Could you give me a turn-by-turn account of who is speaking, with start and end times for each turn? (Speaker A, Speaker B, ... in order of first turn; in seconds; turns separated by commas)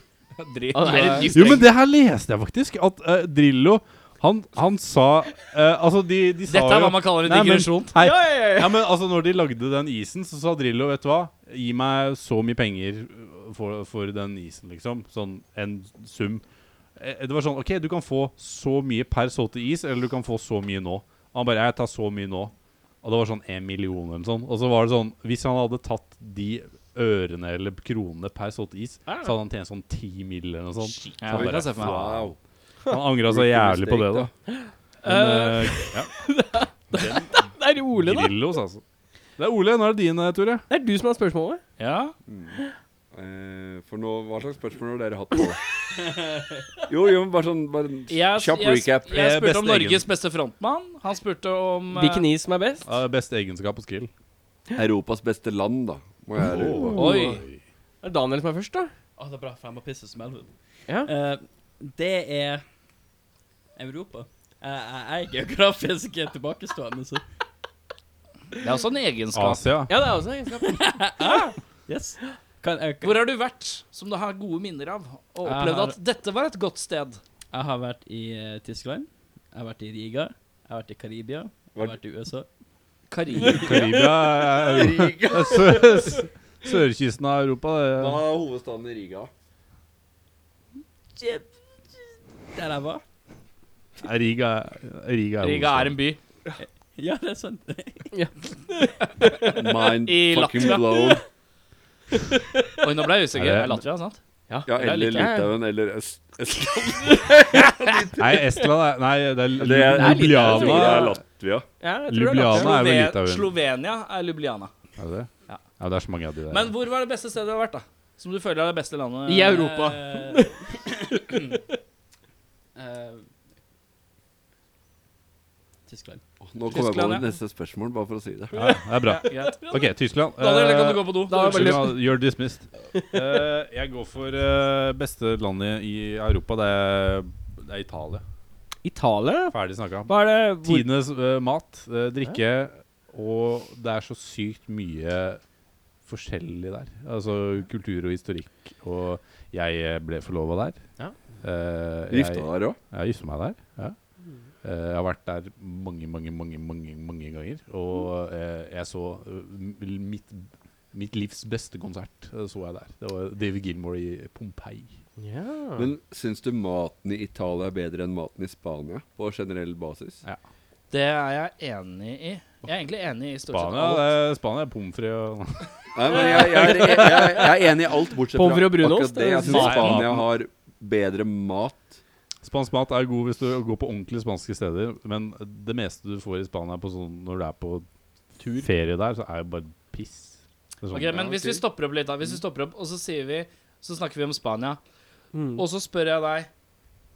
Speaker A: 0.4-1.7, Speaker B: 0.8-1.5, Speaker C: 1.3-16.4, Speaker A: 6.5-8.0, Speaker B: 8.0-8.9, Speaker C: 17.0-32.4, Speaker B: 29.1-29.4, Speaker A: 31.2-32.0, Speaker D: 31.3-32.4, Speaker C: 32.9-34.3, Speaker D: 33.2-34.3, Speaker B: 34.5-38.4, Speaker C: 35.0-36.1, Speaker C: 36.9-37.4, Speaker C: 37.9-38.8, Speaker C: 39.4-40.6, Speaker B: 40.7-41.6, Speaker A: 41.8-42.1, Speaker D: 42.3-42.6, Speaker D: 43.1-45.6, Speaker E: 46.0-46.5, Speaker D: 46.9-49.2, Speaker A: 48.1-52.3, Speaker C: 49.1-50.1, Speaker B: 51.9-52.9, Speaker C: 52.9-54.1, Speaker D: 54.8-57.0, Speaker C: 56.4-57.6, Speaker A: 56.9-57.4, Speaker B: 58.0-58.9, Speaker E: 59.2-60.5, Speaker E: 61.0-62.6, Speaker E: 63.8-67.2, Speaker A: 68.6-69.6, Speaker C: 69.3-70.0, Speaker B: 69.9-70.9, Speaker E: 70.6-73.2, Speaker A: 71.2-71.5, Speaker A: 73.0-77.2, Speaker E: 75.4-75.9, Speaker E: 77.5-82.5, Speaker A: 83.1-83.8, Speaker C: 83.4-88.2, Speaker B: 83.7-84.1, Speaker D: 84.6-86.0, Speaker D: 88.0-89.3, Speaker E: 91.2-91.5, Speaker E: 92.5-93.0, Speaker C: 94.0-96.0, Speaker A: 95.4-96.2, Speaker E: 96.6-98.1, Speaker B: 98.1-99.5, Speaker D: 99.4-101.2, Speaker A: 100.0-101.2, Speaker B: 102.3-102.6, Speaker A: 102.8-104.2, Speaker C: 103.3-103.8, Speaker B: 104.5-105.5, Speaker D: 104.7-108.5, Speaker A: 104.7-105.4, Speaker B: 107.1-107.4, Speaker C: 108.2-111.2, Speaker D: 109.6-111.7, Speaker B: 109.8-111.2, Speaker B: 111.8-112.8, Speaker C: 112.1-113.5, Speaker A: 112.5-114.7, Speaker C: 115.0-116.7, Speaker A: 116.5-119.7, Speaker B: 119.3-121.6, Speaker E: 119.5-121.5, Speaker E: 122.8-123.2, Speaker E: 125.9-126.2, Speaker D: 126.4-128.6, Speaker A: 126.7-127.3, Speaker C: 128.5-138.2, Speaker A: 129.0-129.8, Speaker B: 129.1-129.7, Speaker A: 130.4-131.8, Speaker B: 131.3-132.0, Speaker B: 138.8-139.6, Speaker C: 139.5-145.4, Speaker A: 140.1-140.9, Speaker C: 146.1-150.8, Speaker C: 151.4-154.0, Speaker D: 152.1-152.8, Speaker C: 154.6-164.9, Speaker B: 165.2-165.9, Speaker D: 165.8-170.2, Speaker A: 170.9-174.1, Speaker C: 173.5-176.4, Speaker D: 175.9-182.0, Speaker B: 176.1-177.7, Speaker B: 178.3-179.9, Speaker A: 179.5-180.1, Speaker C: 179.5-180.3, Speaker C: 182.4-187.9, Speaker C: 188.4-191.3, Speaker A: 190.9-194.8, Speaker D: 191.1-191.6, Speaker B: 195.3-195.6, Speaker A: 195.6-196.5